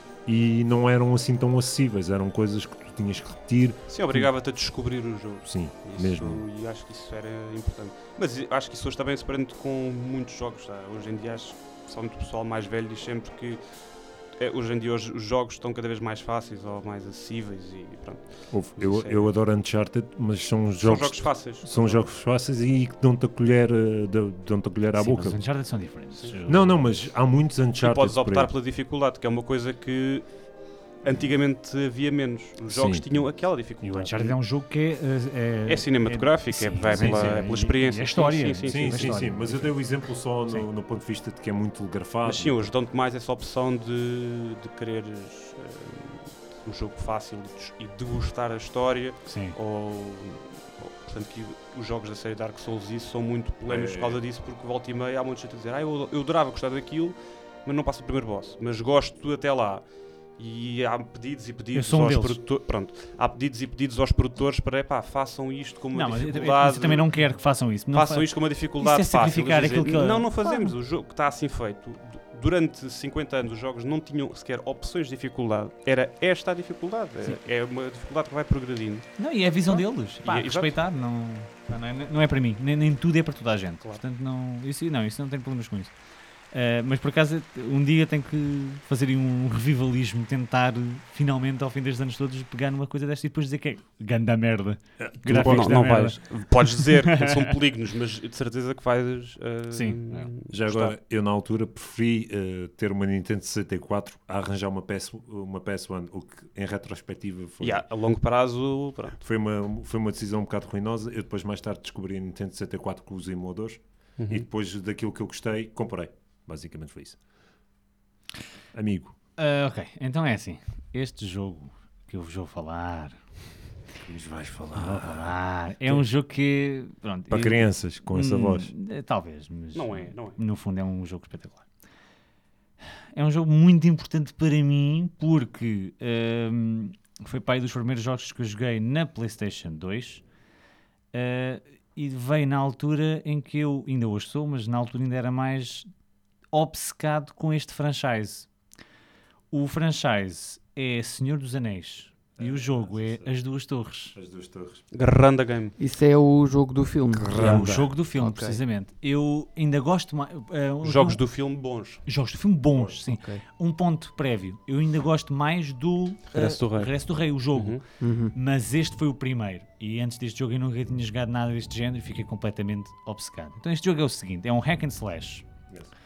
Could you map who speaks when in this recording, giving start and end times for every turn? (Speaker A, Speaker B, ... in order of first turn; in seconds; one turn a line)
Speaker A: 0.2-4.3
Speaker B: 3.9-13.6
Speaker A: 5.5-6.4
Speaker B: 14.3-19.3
Speaker A: 18.5-25.4
Speaker B: 20.8-22.0
Speaker C: 24.9-26.8
Speaker A: 26.4-28.5
Speaker B: 27.8-30.3
Speaker B: 31.0-34.4
Speaker A: 32.7-33.0
Speaker C: 33.8-39.9
Speaker B: 35.7-39.3
Speaker A: 36.9-37.4
Speaker A: 38.6-42.5
Speaker B: 42.2-59.9
Speaker C: 49.3-49.6
Speaker A: 53.7-54.2
Speaker B: 60.4-67.2
Speaker C: 61.7-62.4
Speaker C: 65.9-70.7
Speaker B: 67.9-80.8
Speaker C: 79.2-85.9
Speaker C: 86.5-97.5
Speaker A: 95.0-95.9
Speaker B: 95.3-100.9
Speaker C: 99.7-100.3
Speaker A: 100.5-107.8
Speaker B: 107.6-109.2
Speaker A: 109.2-117.2
Speaker B: 114.2-114.5
Speaker A: 118.7-119.1
Speaker C: 119.4-123.2
Speaker A: 124.0-126.1
Speaker C: 124.7-131.6
Speaker A: 127.3-128.7
Speaker B: 129.7-130.4
Speaker C: 133.1-140.2
Speaker C: 141.1-145.9
Speaker C: 146.5-148.5
Speaker C: 149.5-154.2
Speaker A: 152.4-153.4
Speaker A: 154.1-154.8
Speaker B: 154.9-155.8
Speaker D: 155.8-158.6
Speaker A: 157.2-157.9
Speaker B: 157.3-157.8
Speaker C: 157.3-161.2
Speaker B: 160.8-162.1
Speaker C: 162.1-175.4
Speaker A: 162.7-163.0
Speaker D: 163.1-163.4
Speaker B: 166.3-167.0
Speaker B: 167.5-167.8
Speaker D: 168.0-168.3